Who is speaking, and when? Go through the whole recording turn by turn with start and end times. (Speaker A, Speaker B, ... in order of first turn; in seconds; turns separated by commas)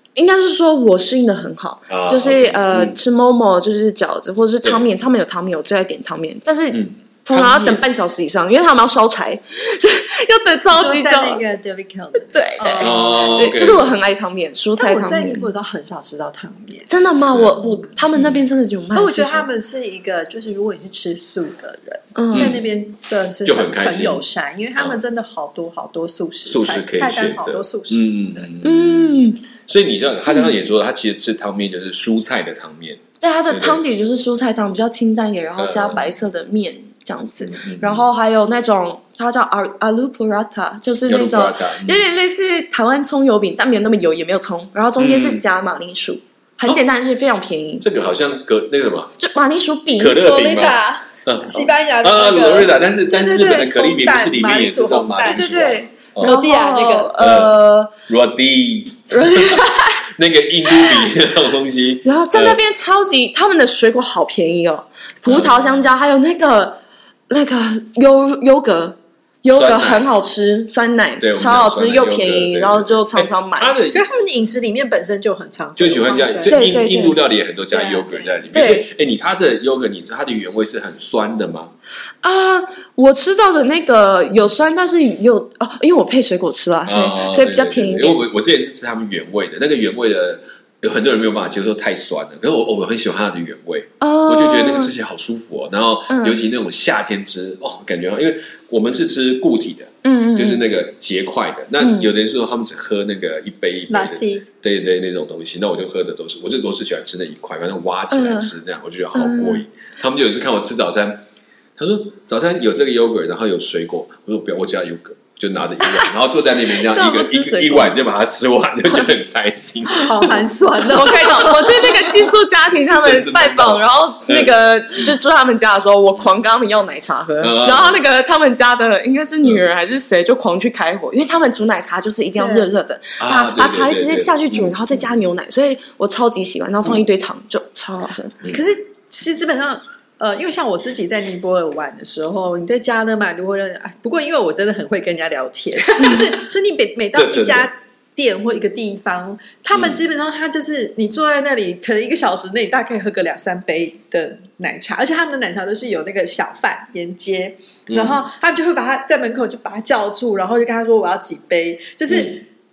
Speaker A: 0.1-11.4, Speaker B: 1.9-3.0, Speaker B: 4.6-4.9, Speaker B: 6.7-7.8, Speaker C: 10.7-13.8, Speaker A: 12.2-15.5, Speaker B: 12.8-13.9, Speaker C: 14.8-16.9, Speaker A: 16.9-19.5, Speaker C: 18.9-28.5, Speaker A: 22.2-22.6, Speaker B: 22.3-22.7, Speaker B: 23.5-24.2, Speaker B: 26.5-29.1, Speaker A: 28.6-29.4, Speaker B: 29.7-33.8, Speaker A: 30.3-30.5, Speaker A: 33.2-47.9, Speaker B: 35.6-36.1, Speaker B: 37.4-38.0, Speaker B: 41.1-42.0, Speaker B: 45.0-45.4, Speaker B: 47.8-49.1, Speaker A: 49.2-50.3, Speaker B: 50.0-56.4, Speaker C: 50.2-57.2, Speaker A: 55.2-57.9, Speaker B: 57.2-62.6, Speaker A: 59.1-60.0, Speaker A: 62.0-66.8, Speaker B: 65.3-65.6, Speaker A: 67.3-73.8, Speaker B: 69.5-70.1, Speaker B: 71.2-74.0, Speaker C: 73.9-76.6, Speaker B: 75.8-81.7, Speaker A: 76.5-77.2, Speaker C: 77.7-78.4, Speaker A: 78.5-78.8, Speaker A: 82.2-88.2, Speaker B: 86.9-111.2, Speaker A: 94.0-94.9, Speaker A: 96.1-96.4, Speaker A: 100.0-100.6, Speaker A: 101.8-102.1, Speaker C: 103.9-104.5, Speaker A: 108.1-108.5, Speaker A: 109.1-109.6, Speaker B: 111.8-120.5, Speaker A: 116.8-118.0, Speaker C: 119.9-122.2, Speaker A: 120.8-138.4, Speaker B: 122.9-125.1, Speaker B: 127.4-128.0, Speaker C: 132.3-132.7, Speaker B: 133.2-135.1, Speaker C: 138.5-162.4, Speaker B: 147.1-147.7, Speaker B: 149.7-150.0, Speaker B: 157.9-158.3